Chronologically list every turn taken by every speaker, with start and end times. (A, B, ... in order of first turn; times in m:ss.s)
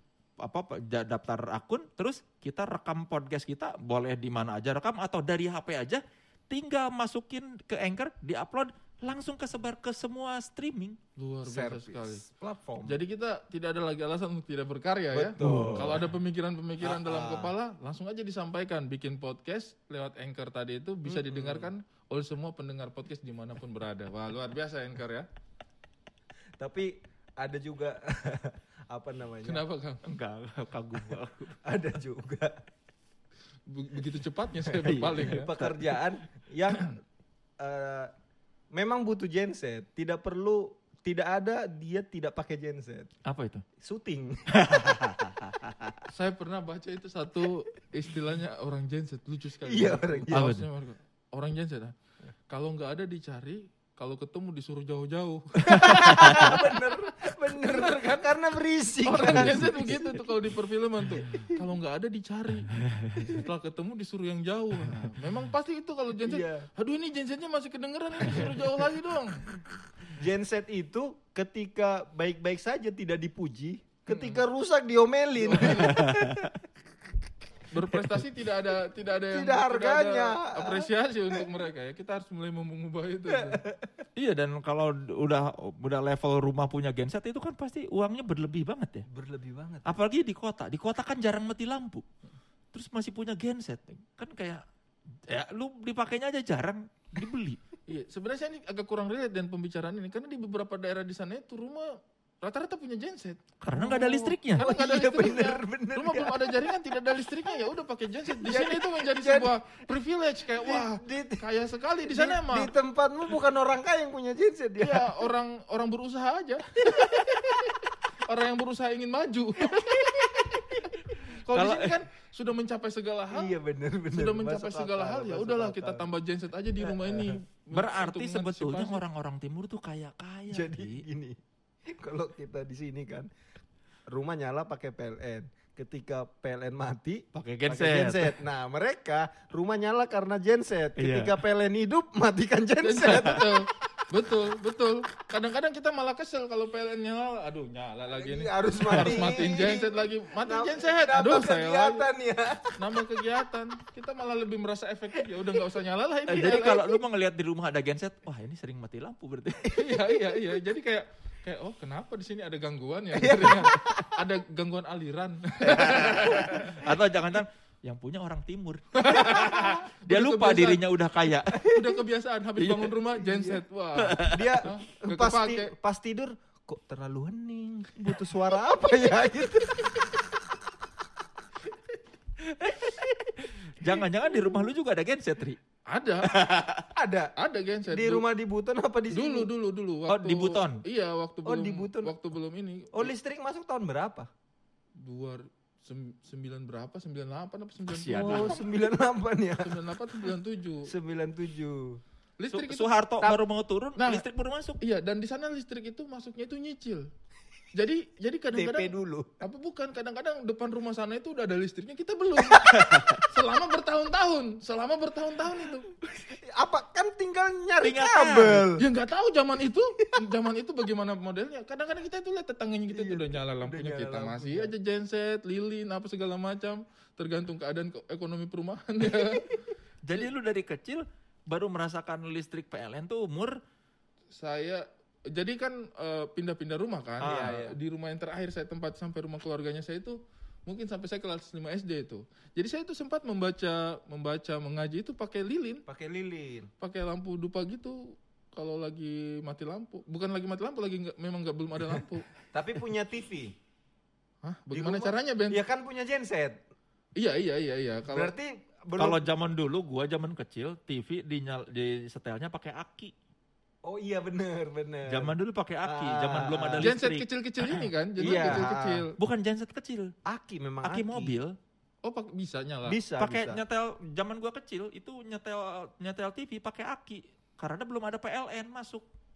0:00.4-0:11.0 A
0:11.2-0:12.2 B
0:11.4-0:13.0 C
0:12.8-0:25.3 B
0:15.1-0:16.0 C
0:15.4-0:16.0 A
0:16.8-0:17.5 C
0:21.1-0:21.7 C
0:26.6-0:29.7 C
0:29.4-0:30.0 B
0:30.0-0:31.5 A
0:31.5-0:32.6 C
0:33.7-0:35.5 B
0:34.8-0:35.8 A
0:35.1-0:37.0 C
0:37.6-0:38.1 C
0:38.7-0:43.1 C
0:43.3-0:43.6 A
0:43.8-0:44.9 C
0:44.6-0:45.9 A
0:46.1-0:51.9 B
0:49.6-0:50.6 C
0:50.3-0:50.7 A
0:52.5-0:58.4 B
0:55.6-1:00.0 C
0:59.1-1:09.4 B
1:06.2-1:06.7 C
1:10.1-1:16.5 C
1:14.1-1:14.4 B
1:15.4-1:16.0 B
1:15.9-1:16.5 A
1:17.7-1:23.6 B
1:19.3-1:20.9 C
1:23.3-1:23.9 C
1:24.2-1:29.1 A
1:29.1-1:29.9 C
1:29.9-1:32.0 A
1:32.7-1:34.6 A
1:35.3-1:37.6 A
1:37.9-1:52.7 B
1:43.6-1:44.6 A
1:44.6-1:46.6 C
1:48.4-1:49.5 C
1:50.6-1:51.4 C
1:52.1-1:55.2 C
1:54.8-1:57.8 B
1:58.3-2:00.2 B
2:01.3-2:03.6 B
2:01.5-2:02.0 A
2:03.3-2:06.1 C
2:04.1-2:09.0 B
2:06.9-2:07.4 C
2:07.7-2:11.0 A
2:10.5-2:11.4 C
2:11.9-2:13.3 C
2:14.1-2:23.5 C
2:17.3-2:18.3 A
2:21.0-2:21.3 A
2:22.8-2:32.1 B
2:28.2-2:33.0 C
2:28.9-2:29.4 A
2:32.8-2:36.9 B
2:36.3-2:39.9 A
2:39.7-2:46.9 B
2:43.2-2:44.1 C
2:45.6-2:51.6 A
2:46.2-2:46.7 C
2:49.0-2:50.9 B
2:51.6-2:52.0 C
2:51.6-2:55.7 B
2:52.6-2:52.9 A
2:53.2-2:53.6 C
2:54.0-2:54.6 A
2:54.2-3:00.3 C
3:02.6-3:03.1 A
3:03.6-3:05.6 A
3:05.9-3:06.3 B
3:06.2-3:06.8 A
3:07.0-3:07.3 C
3:07.4-3:08.3 B
3:07.9-3:09.5 C
3:09.1-3:13.1 B
3:10.1-3:10.8 A
3:11.4-3:12.1 C
3:12.9-3:14.3 C
3:15.0-3:18.6 B
3:17.9-3:18.6 A
3:18.2-3:19.8 C
3:19.6-3:20.9 B
3:20.9-3:22.0 C
3:22.4-3:23.4 B
3:22.5-3:24.8 A
3:24.0-3:24.2 B
3:24.8-3:27.1 B
3:27.7-3:35.9 B
3:28.5-3:29.4 C
3:32.6-3:33.2 A
3:36.3-3:38.8 C
3:37.8-3:38.7 A
3:38.8-3:49.6 B
3:42.9-3:44.7 C
3:50.0-3:53.6 A
3:54.3-4:05.8 B
3:57.2-3:57.6 A
3:57.2-3:57.8 C
4:05.9-4:06.7 C
4:06.8-4:12.3 B
4:12.5-4:13.6 C
4:14.4-4:15.6 B
4:14.7-4:16.6 C
4:17.2-4:18.4 B
4:18.1-4:19.3 C
4:19.0-4:23.1 A
4:23.8-4:27.0 C
4:25.1-4:30.1 A
4:26.8-4:29.2 B
4:28.2-4:29.1 C
4:30.3-4:31.3 C
4:30.8-4:31.6 A
4:32.0-4:33.0 B
4:32.8-4:33.6 C
4:33.2-4:39.1 A